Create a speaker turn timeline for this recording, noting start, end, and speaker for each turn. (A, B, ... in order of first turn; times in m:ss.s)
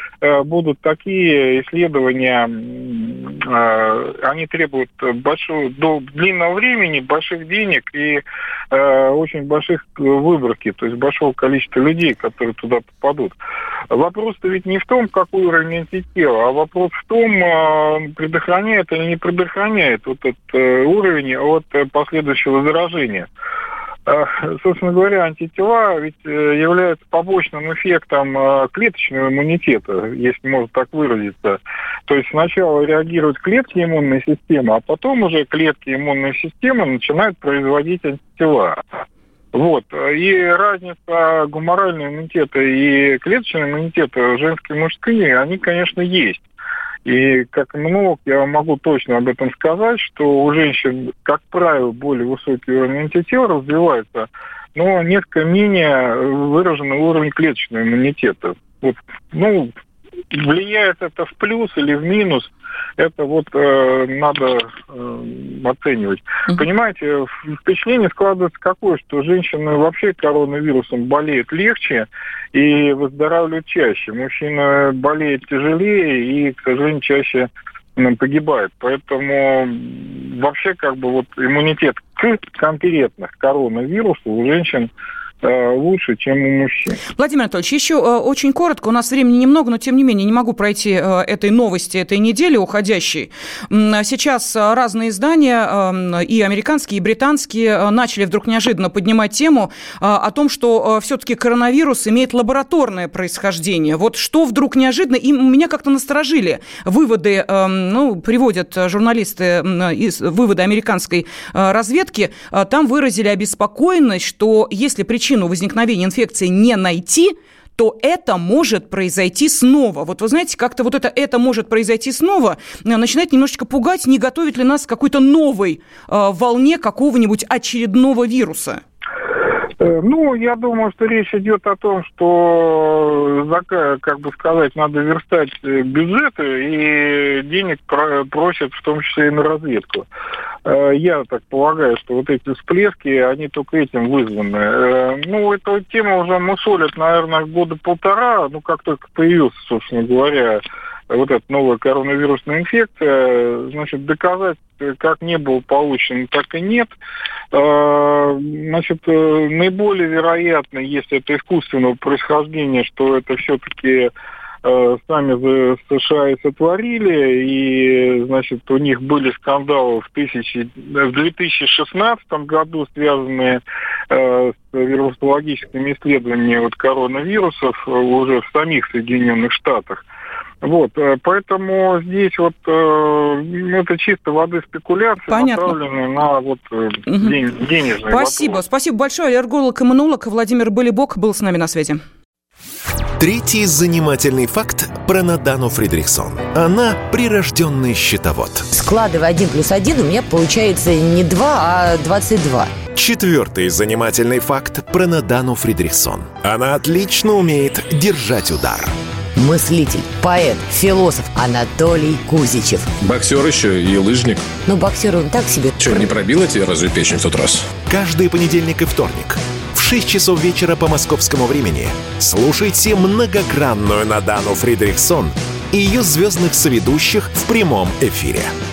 0:00.2-0:13.4 A
0:13.9-0:23.3 A
0:24.1-0:38.8 A
0:39.5-0:46.4 A
0:47.0-0:59.7 A
1:00.3-1:24.9 A
1:25.4-1:27.0 A
1:27.2-2:08.8 B
2:09.8-2:20.1 A
2:20.6-2:36.9 A
2:37.5-2:44.1 A
2:44.6-3:00.0 A
3:00.6-3:08.6 A
3:05.3-3:05.7 B
3:07.1-3:07.4 B
3:08.0-3:12.0 B
3:13.2-3:18.7 C
3:18.7-3:22.7 D
3:22.9-3:29.0 C
3:29.4-3:32.9 D
3:33.0-3:34.5 E
3:34.6-3:36.1 D
3:35.8-3:37.7 E
3:37.9-3:48.5 C